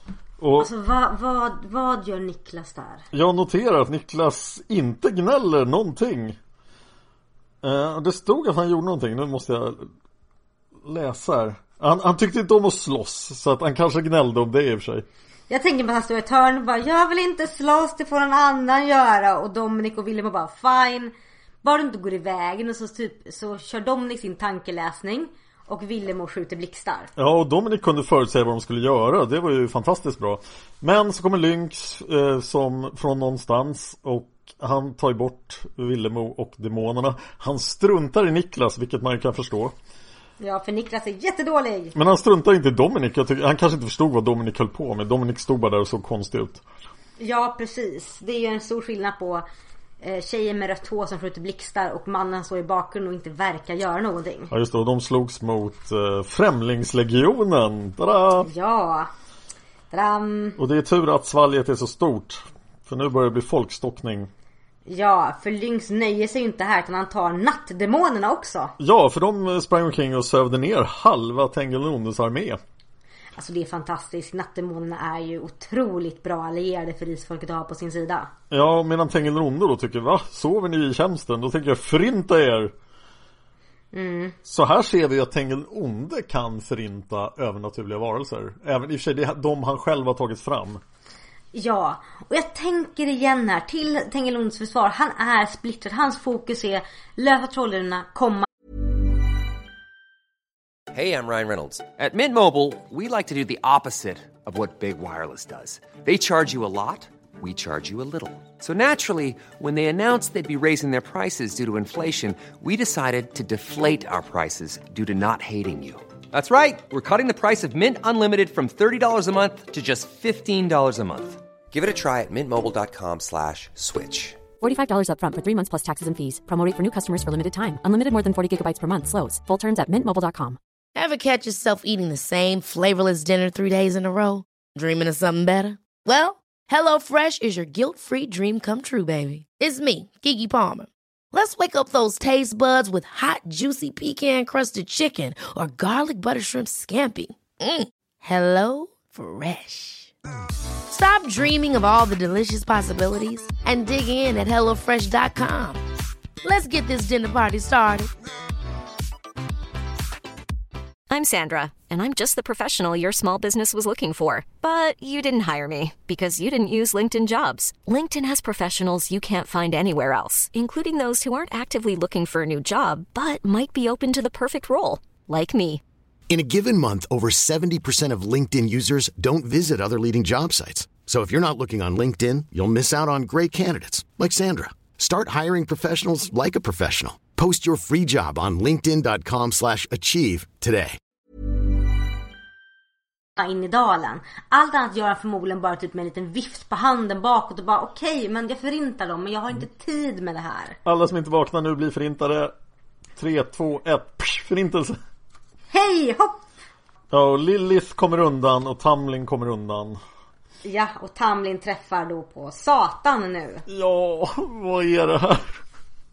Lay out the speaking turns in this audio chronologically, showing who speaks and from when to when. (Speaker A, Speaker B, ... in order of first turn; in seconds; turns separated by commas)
Speaker A: 0.4-0.7, Speaker B: 0.6-3.0, Speaker A: 3.1-6.4, Speaker A: 7.6-9.9, Speaker A: 10.8-15.1, Speaker B: 15.5-27.1, Speaker A: 27.2-39.8, Speaker B: 40.4-42.0, Speaker A: 42.0-46.6, Speaker B: 47.2-49.5, Speaker B: 50.0-54.5, Speaker A: 54.5-58.5, Speaker B: 58.4-59.1, Speaker B: 59.9-60.6, Speaker A: 60.6-64.3, Speaker B: 64.9-68.7, Speaker A: 68.8-72.6, Speaker B: 73.4-78.3, Speaker A: 78.5-82.7, Speaker B: 83.9-84.4, Speaker A: 84.4-90.8, Speaker B: 91.5-98.5, Speaker C: 100.9-124.5, Speaker D: 124.6-130.6, Speaker E: 131.0-150.1, Speaker E: 150.9-155.8, Speaker E: 156.4-158.1, Speaker F: 161.1-175.8, Speaker G: 176.3-191.0, Speaker B: 193.4-200.8, Speaker A: 200.8-202.5, Speaker A: 203.2-205.0, Speaker B: 205.7-206.5, Speaker A: 207.1-210.0, Speaker B: 210.6-213.7, Speaker A: 213.7-215.6